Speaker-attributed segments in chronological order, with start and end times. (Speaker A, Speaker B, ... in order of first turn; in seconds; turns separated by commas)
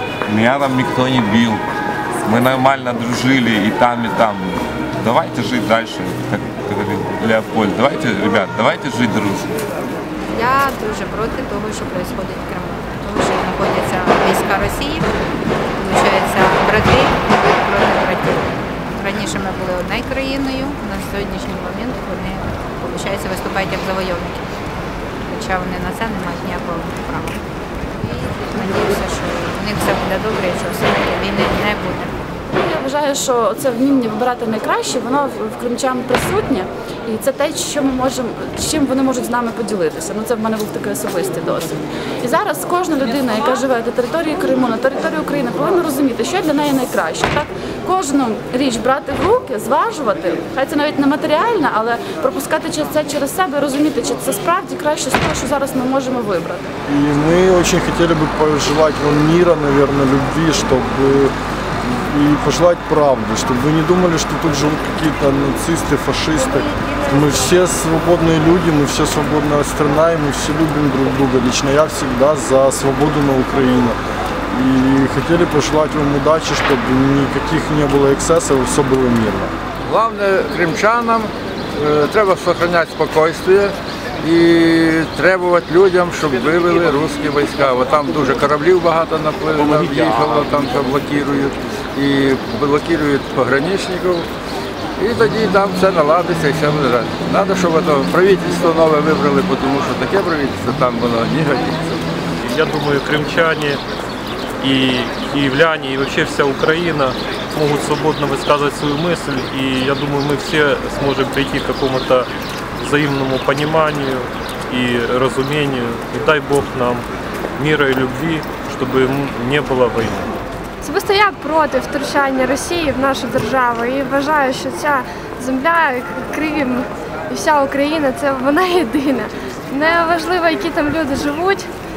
Speaker A: 0.2-1.6, Speaker A: 2.2-9.6, Speaker B: 10.3-15.1, Speaker B: 15.8-24.4, Speaker B: 25.3-32.2, Speaker C: 32.5-56.7, Speaker D: 56.9-74.0, Speaker D: 74.5-79.5, Speaker E: 79.8-94.3, Speaker E: 95.0-102.0, Speaker F: 102.4-103.8, Speaker F: 104.6-117.0, Speaker F: 117.6-120.3, Speaker G: 120.8-131.7